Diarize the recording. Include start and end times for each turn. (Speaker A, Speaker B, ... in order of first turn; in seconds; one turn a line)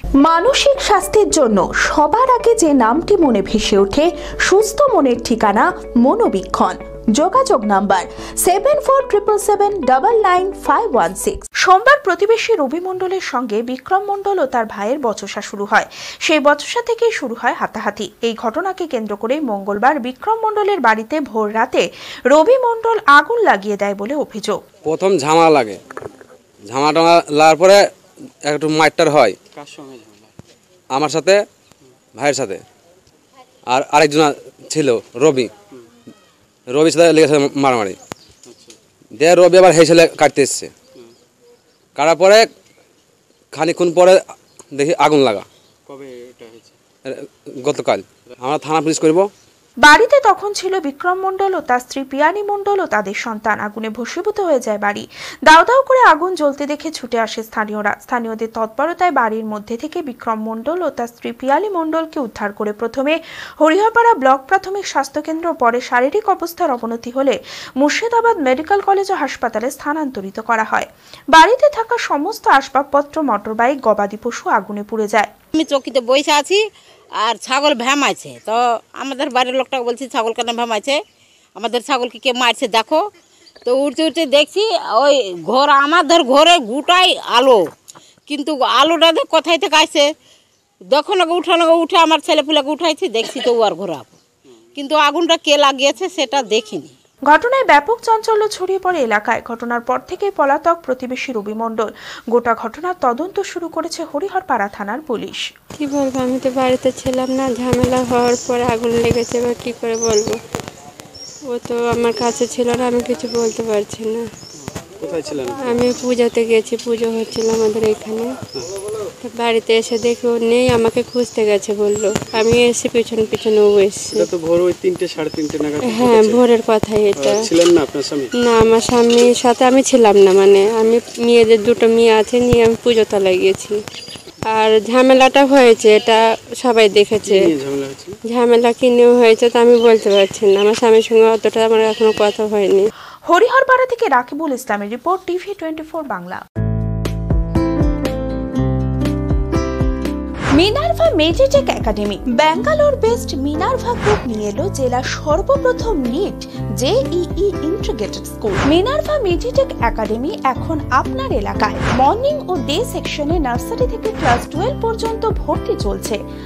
Speaker A: 0.2-24.6
Speaker B: 24.9-25.8
Speaker B: 26.7-27.8
Speaker B: 28.5-29.4
Speaker C: 29.5-30.3
Speaker B: 30.9-31.4
Speaker B: 32.1-32.6
Speaker B: 33.7-35.5
Speaker B: 36.7-38.0
Speaker C: 38.5-38.8
Speaker B: 39.2-40.7
Speaker B: 42.0-42.5
Speaker B: 43.5-44.2
Speaker B: 44.8-45.5
Speaker C: 45.9-46.8
Speaker B: 47.1-49.3
Speaker A: 49.8-75.3
Speaker D: 75.6-76.6
Speaker D: 77.2-81.0
Speaker D: 81.6-83.0
Speaker D: 83.7-87.6
Speaker D: 88.3-90.0
Speaker D: 90.9-94.1
Speaker D: 94.8-96.9
Speaker A: 97.3-105.5
Speaker E: 105.8-110.4
Speaker E: 111.5-114.2
Speaker C: 115.0-115.8
Speaker E: 115.6-118.3
Speaker E: 119.2-124.3
Speaker C: 124.2-126.4
Speaker E: 125.8-127.5
Speaker C: 127.2-128.3
Speaker E: 128.4-133.8
Speaker E: 134.5-137.5
Speaker C: 137.2-138.2
Speaker E: 138.3-142.9
Speaker A: 143.3-146.4
Speaker A: 150.6-166.2